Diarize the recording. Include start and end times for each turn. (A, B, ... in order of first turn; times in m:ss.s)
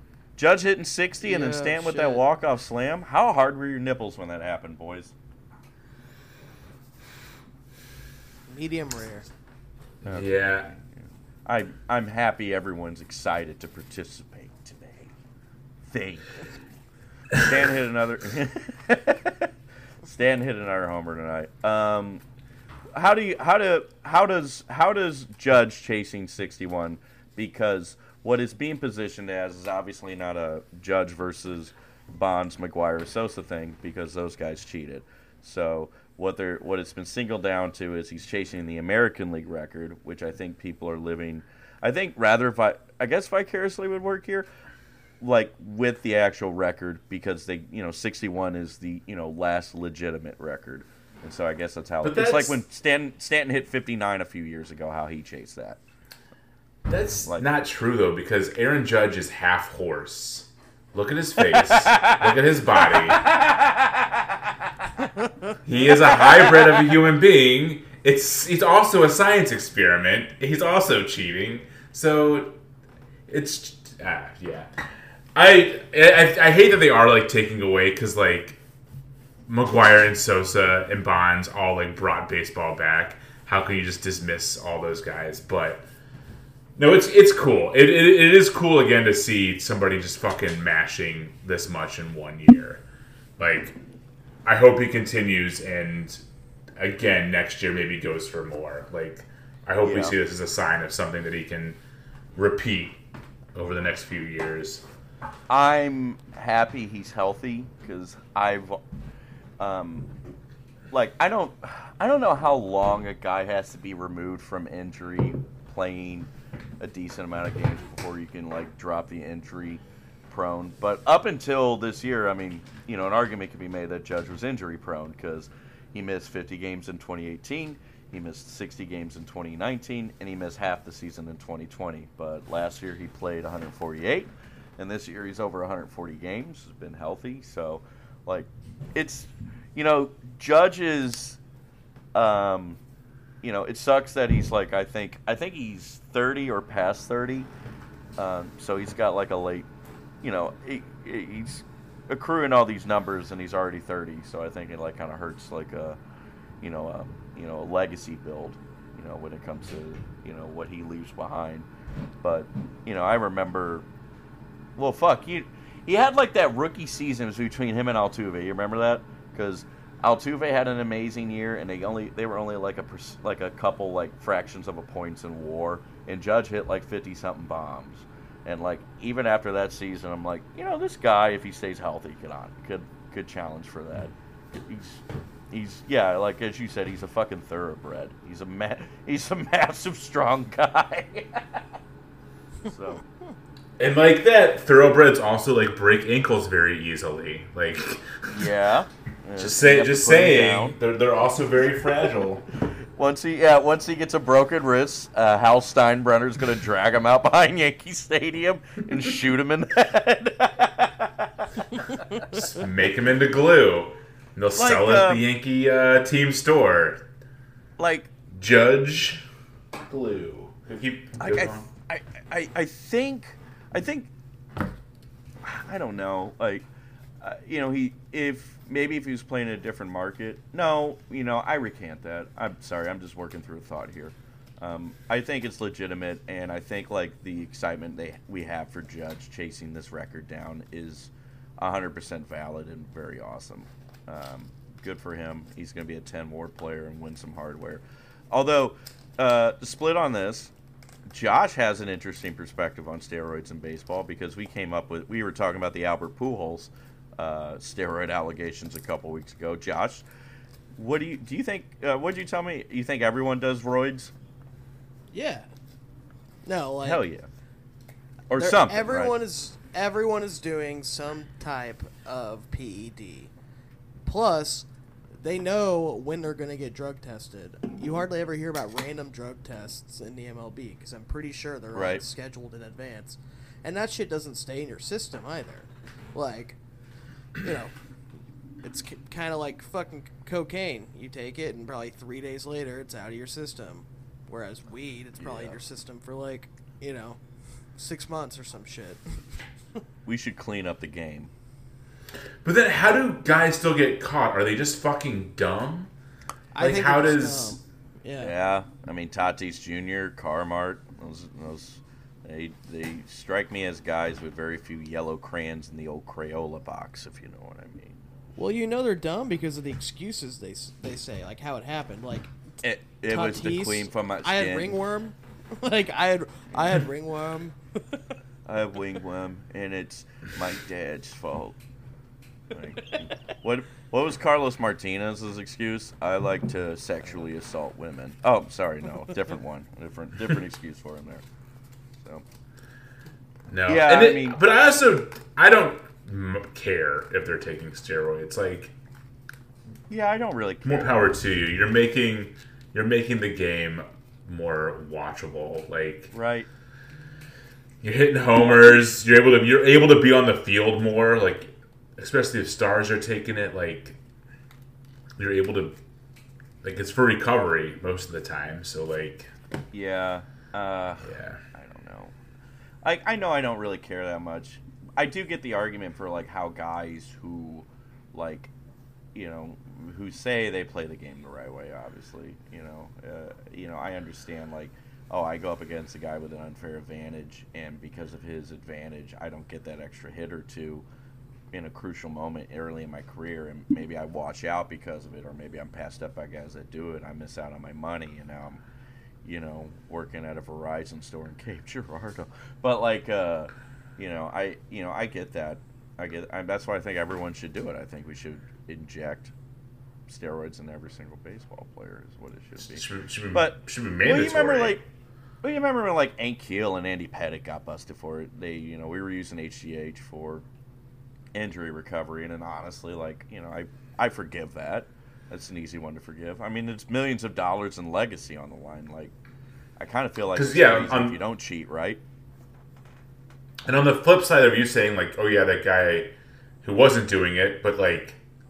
0:00.4-0:05.1 A
0:01.2-0:02.2 B
0:08.5-0:09.3 B
0:10.0-0:15.1 A
0:10.1-0:10.7 C
0:15.8-0:16.4 A
0:17.4-0:19.5 A
0:20.0-0:22.2 A
0:22.9-0:44.5 A
0:45.2-0:55.8 A
0:52.0-0:52.6 C
0:56.9-1:03.2 C
0:57.2-0:57.5 A
1:01.5-1:04.7 A
1:05.6-1:12.6 C
1:06.0-1:07.0 A
1:13.3-1:14.7 C
1:15.3-1:18.6 C
1:19.5-1:25.8 C
1:26.8-1:32.8 C
1:33.4-1:33.8 C
1:34.4-1:36.2 C
1:36.8-1:41.8 C
1:39.8-1:40.1 A
1:42.3-1:43.0 C
1:43.5-1:44.8 C
1:45.5-1:48.8 A
1:49.6-1:50.1 A
1:50.9-2:21.4 A
2:22.1-2:22.8 A
2:23.4-2:27.5 A
2:28.2-2:29.7 A
2:30.2-2:36.0 A
2:36.6-2:41.7 A
2:42.2-2:43.8 A
2:44.8-3:11.7 A
3:12.6-3:13.0 A
3:13.8-3:18.5 C
3:18.3-3:20.8 A
3:19.4-3:22.4 C
3:22.7-3:31.5 A
3:32.3-3:37.0 C
3:34.5-3:35.2 A
3:37.8-3:38.1 A
3:38.3-3:39.2 C
3:39.8-3:41.7 C
3:41.2-3:44.1 A
3:45.4-3:46.6 A
3:47.2-4:10.5 A
4:11.1-4:20.0 A
4:20.7-4:24.1 A
4:25.1-4:25.5 B
4:26.4-4:27.0 B
4:26.8-4:27.3 A
4:28.3-4:29.1 A
4:28.4-4:33.3 B
4:34.0-4:34.7 B
4:35.2-4:46.6 B
4:41.7-4:42.0 A
4:47.4-4:47.7 B
4:48.6-4:57.2 B
4:55.2-4:55.6 A
4:57.8-4:59.2 B
5:00.0-5:01.3 A
5:02.4-5:05.9 C
5:06.5-5:08.3 B
5:06.6-5:07.6 C
5:08.2-5:18.0 A
5:18.4-5:22.3 B
5:22.6-5:24.8 A
5:23.1-5:27.6 B
5:26.5-5:26.8 A
5:28.4-5:31.6 A
5:32.5-5:41.2 A
5:42.0-5:42.2 A
5:43.5-5:48.7 C
5:43.7-5:44.4 A
5:49.9-5:50.9 A
5:50.6-5:56.1 C
5:56.1-5:56.5 A
5:57.8-6:04.0 C
6:05.2-6:05.8 C
6:06.6-6:09.3 C
6:09.7-6:12.1 A
6:11.0-6:11.4 C
6:12.8-6:18.5 A
6:19.1-6:30.8 A
6:31.5-6:38.6 A
6:39.2-6:49.3 A
6:50.1-6:54.8 A
6:52.6-6:54.8 C
6:55.4-7:00.4 A
7:01.3-7:09.1 A
7:09.8-7:12.0 A
7:10.3-7:11.2 C
7:13.6-7:18.2 C